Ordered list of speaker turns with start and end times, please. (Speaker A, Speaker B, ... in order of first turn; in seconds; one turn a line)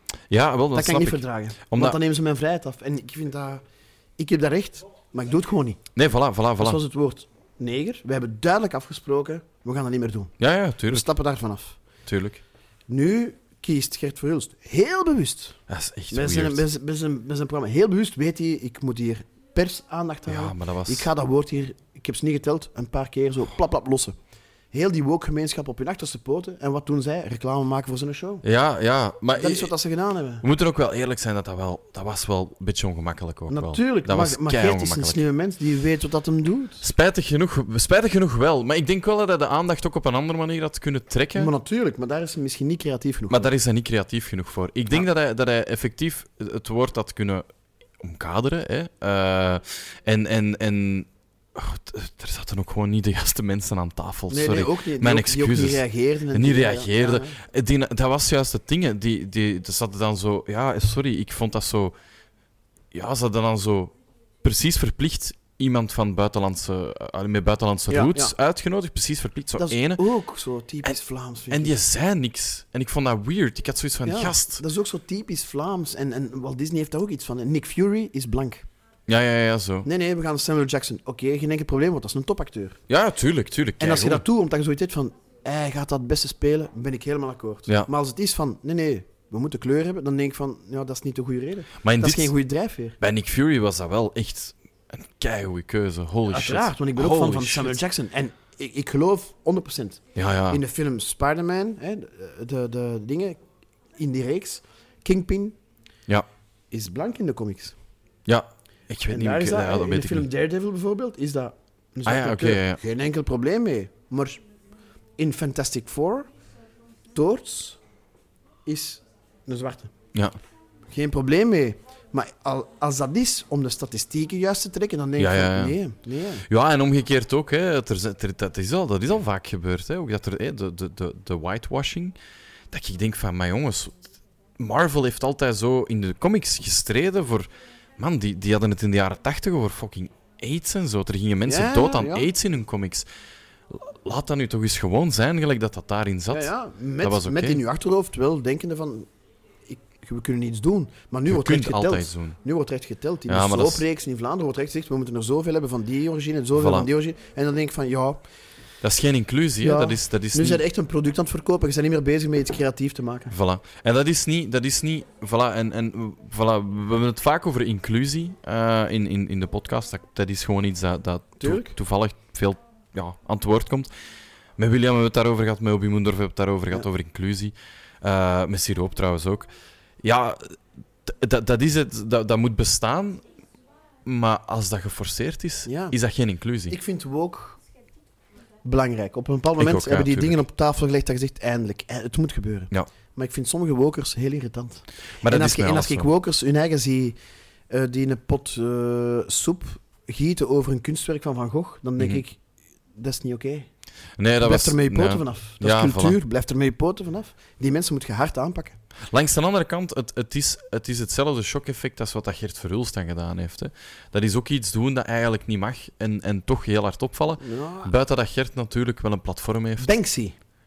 Speaker A: 0.3-2.0
Speaker B: 0.7-3.6
Speaker B: 4.2-5.8
Speaker A: 5.9-6.8
Speaker B: 6.6-10.3
Speaker A: 10.4-11.1
Speaker B: 10.9-11.8
Speaker A: 12.1-12.4
Speaker B: 12.9-15.6
Speaker A: 15.7-16.6
Speaker B: 16.1-24.1
Speaker A: 20.3-21.1
Speaker B: 24.7-28.4
Speaker A: 28.4-29.7
Speaker B: 29.4-30.4
Speaker A: 30.4-35.2
Speaker B: 33.5-36.9
Speaker A: 36.8-41.5
Speaker B: 41.4-43.5
Speaker A: 43.3-47.5
Speaker A: 48.0-61.9
Speaker B: 54.3-57.3
Speaker A: 62.9-70.0
Speaker B: 67.9-68.3
Speaker B: 69.6-71.8
Speaker A: 71.5-74.6
Speaker B: 74.0-78.7
Speaker A: 79.1-79.9
Speaker B: 79.8-82.8
Speaker A: 82.9-84.2
Speaker B: 83.8-93.0
Speaker A: 91.8-92.3
Speaker A: 93.0-97.8
Speaker B: 96.3-103.4
Speaker A: 100.1-100.6
Speaker B: 104.0-105.5
Speaker B: 106.7-107.8
Speaker A: 108.2-110.3
Speaker B: 109.1-114.4
Speaker A: 112.0-112.8
Speaker B: 115.2-116.3
Speaker B: 117.1-117.8
Speaker B: 118.7-119.9
Speaker B: 120.9-126.5
Speaker A: 125.2-125.8
Speaker A: 126.5-132.1
Speaker A: 132.7-134.0
Speaker A: 134.6-143.1
Speaker B: 141.4-142.3
Speaker A: 143.7-147.6
Speaker B: 146.3-149.1
Speaker B: 149.7-158.2
Speaker A: 151.3-152.4
Speaker A: 153.3-153.8
Speaker A: 156.6-156.9
Speaker A: 158.8-160.6
Speaker B: 159.6-163.3
Speaker A: 163.3-173.9
Speaker B: 171.4-171.7
Speaker A: 174.6-179.5
Speaker A: 180.0-183.2
Speaker A: 184.0-186.8
Speaker B: 185.7-185.9
Speaker B: 186.7-187.6
Speaker B: 188.6-197.2
Speaker A: 189.6-190.4
Speaker A: 195.2-196.1
Speaker B: 197.7-202.4
Speaker B: 202.9-203.7
Speaker A: 204.2-206.2
Speaker B: 204.4-208.8
Speaker A: 209.1-219.9
Speaker B: 217.4-217.9
Speaker B: 219.8-220.3